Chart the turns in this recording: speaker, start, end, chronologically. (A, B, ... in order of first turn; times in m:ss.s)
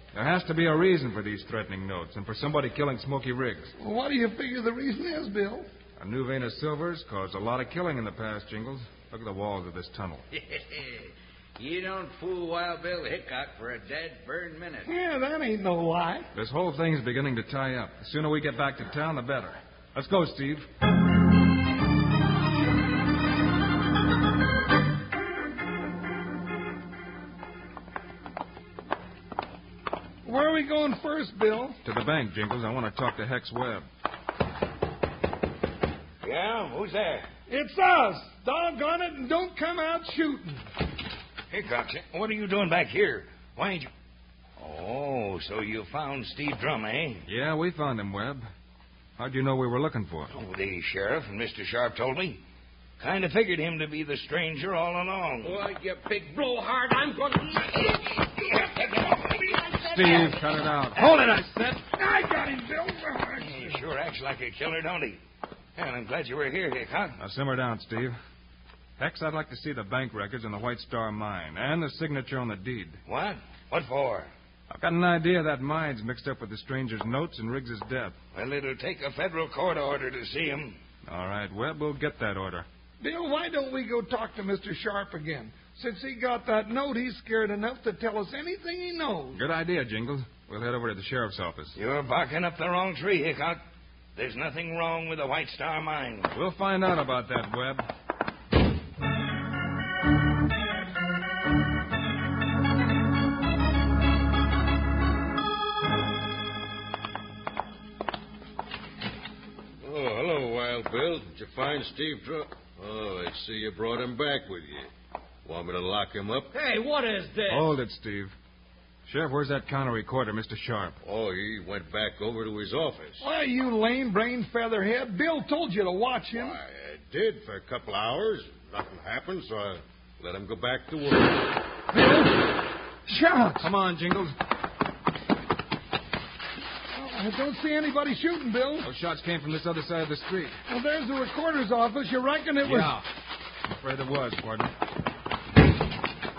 0:00.1-0:03.7 A
0:03.8-0:05.7 B
0:06.0-0:10.2 A
0:10.3-0:14.9 C
0:14.9-0:16.3 B
0:16.4-0:20.7 A
0:30.2-0:31.8 B
0:31.8-0:33.8 A
0:36.2-0:37.3 D
0:37.5-0:40.6 B
0:41.5-0:43.9 D
0:44.6-0:47.2 D
0:47.3-0:48.5 A
0:49.2-0:50.4 A
0:50.3-0:52.4 D
0:53.0-0:55.6 D
0:55.4-0:58.1 E
0:58.5-0:59.4 D
0:59.4-1:00.3 E
0:59.8-1:01.8 A
1:01.9-1:03.8 B
1:03.4-1:05.2 D
1:05.8-1:07.2 D
1:07.2-1:08.2 A
1:09.0-1:13.0 A
1:13.1-1:14.3 D
1:14.7-1:18.2 A
1:18.4-1:20.8 D
1:21.1-1:22.7 A
1:23.0-1:29.4 B
1:29.3-1:31.8 A
1:31.8-1:33.6 D
1:34.2-1:36.3 D
1:36.3-1:37.9 A
1:49.8-1:54.9 F
1:55.4-1:56.5 F
1:56.5-1:57.7 E
1:57.5-1:58.3 A
1:59.1-2:01.0 A
2:01.0-2:03.2 F
2:03.2-2:06.6 B
2:06.3-2:11.5 F
2:11.9-2:12.4 B
2:13.1-2:13.7 B
2:13.6-2:14.4 A
2:16.9-2:18.9 B
2:18.8-2:20.6 A
2:20.7-2:22.9 B
2:22.6-2:23.1 A
2:23.7-2:24.7 A